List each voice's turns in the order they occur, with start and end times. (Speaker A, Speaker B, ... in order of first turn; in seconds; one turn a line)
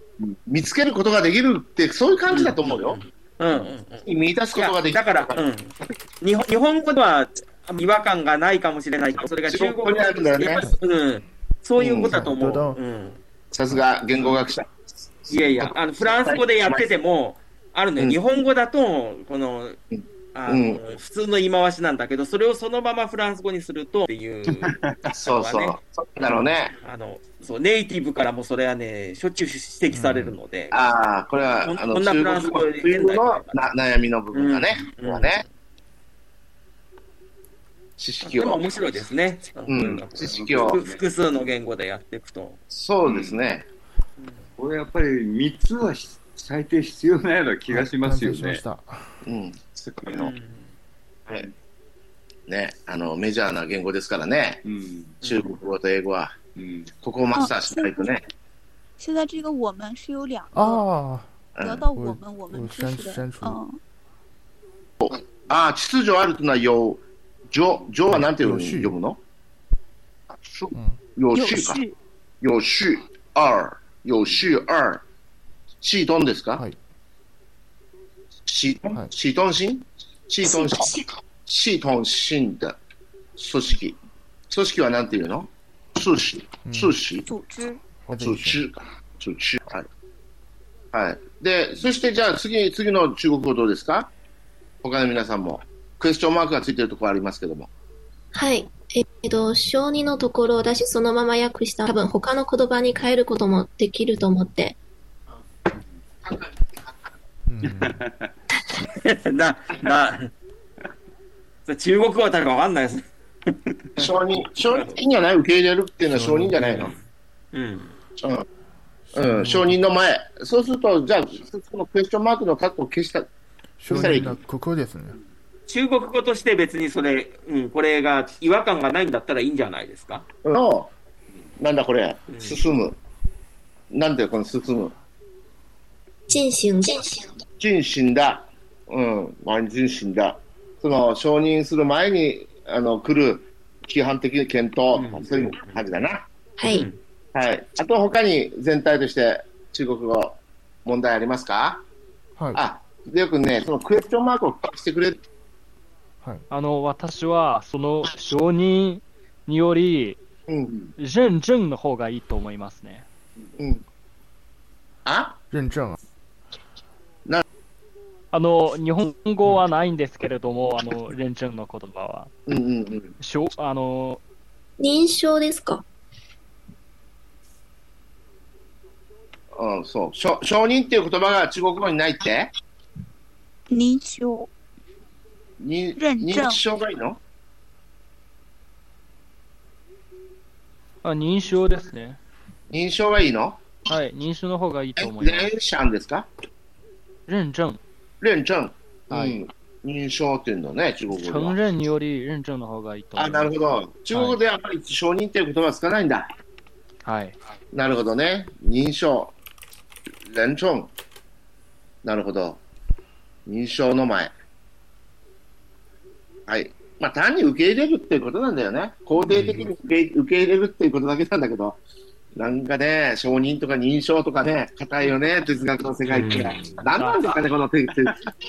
Speaker A: 0.5-3.0
Speaker B: 2.3-13.2
Speaker A: 4.0-5.5
Speaker A: 9.4-10.7
Speaker A: 11.8-12.3
Speaker C: 12.0-12.8
Speaker A: 13.5-16.9
Speaker B: 15.3-19.8
Speaker A: 19.9-20.8
Speaker B: 20.3-30.8
Speaker D: 24.5-25.1
Speaker A: 25.1-26.7
Speaker C: 29.9-30.4
Speaker A: 30.7-35.5
Speaker B: 31.6-33.5
Speaker B: 34.3-35.5
Speaker A: 38.0-38.7
Speaker B: 38.2-42.6
Speaker A: 39.7-40.8
Speaker D: 40.2-41.0
Speaker A: 42.7-43.6
Speaker D: 43.0-43.5
Speaker B: 44.2-44.5
Speaker D: 44.6-48.6
Speaker C: 47.7-49.2
Speaker A: 49.2-50.3
Speaker B: 50.1-50.7
Speaker A: 52.5-54.6
Speaker D: 54.6-55.6
Speaker A: 55.2-56.3
Speaker D: 56.6-56.9
Speaker A: 57.0-58.3
Speaker E: 57.3-58.0
Speaker E: 59.0-60.9
Speaker C: 60.5-63.6
Speaker A: 61.6-61.9
Speaker E: 61.6-63.8
Speaker A: 65.0-69.2
Speaker C: 68.1-69.0
Speaker A: 70.5-71.8
Speaker C: 70.7-71.0
Speaker E: 71.3-72.0
Speaker A: 72.4-75.0
Speaker A: 75.8-76.6
Speaker A: 78.5-82.8
Speaker E: 80.4-81.1
Speaker A: 83.4-87.3
Speaker C: 86.7-87.0
Speaker E: 87.2-87.8
Speaker C: 88.1-88.6
Speaker A: 88.2-89.9
Speaker A: 90.9-94.1
Speaker A: 94.8-97.7
Speaker F: 98.3-104.8
Speaker A: 106.2-106.5
Speaker C: 107.5-108.0
Speaker D: 107.6-108.3
Speaker B: 108.9-110.3
Speaker B: 111.7-115.0
Speaker A: 114.0-116.9
Speaker C: 116.1-116.9
Speaker B: 116.5-118.0
Speaker A: 118.2-118.5
Speaker C: 119.1-119.8
Speaker A: 119.1-123.3
Speaker C: 123.8-125.2
Speaker A: 123.9-124.4
Speaker B: 123.9-124.3
Speaker B: 125.7-130.3
Speaker A: 130.4-130.9
Speaker A: 131.6-133.0
Speaker B: 132.3-132.6
Speaker A: 133.9-134.9
Speaker F: 136.3-137.3
Speaker A: 137.6-146.3
Speaker B: 144.9-145.7
Speaker F: 146.6-146.9
Speaker B: 146.7-147.0
Speaker A: 147.3-151.8
Speaker A: 152.5-155.2
Speaker G: 156.5-160.2
Speaker G: 161.0-163.1
Speaker A: 163.6-163.8
Speaker A: 165.1-165.4
Speaker C: 165.5-166.0
Speaker G: 168.3-172.3
Speaker A: 172.5-173.1
Speaker G: 173.2-174.2
Speaker F: 174.8-175.8
Speaker A: 179.5-182.5
Speaker E: 183.7-184.5
Speaker A: 185.6-187.2
Speaker E: 186.0-186.6
Speaker G: 191.0-192.2
Speaker A: 192.7-193.6
Speaker G: 193.9-195.5
Speaker A: 195.0-196.3
Speaker G: 197.3-197.8
Speaker A: 198.2-201.6
Speaker G: 199.1-199.4
Speaker G: 201.1-203.6
Speaker A: 203.2-206.3
Speaker G: 204.1-204.4
Speaker G: 207.0-207.4
Speaker A: 207.7-209.3
Speaker A: 210.3-210.9
Speaker A: 212.0-212.6
Speaker A: 213.5-214.3
Speaker A: 216.5-221.8
Speaker B: 219.2-219.7
Speaker A: 222.3-228.2
Speaker B: 226.1-226.8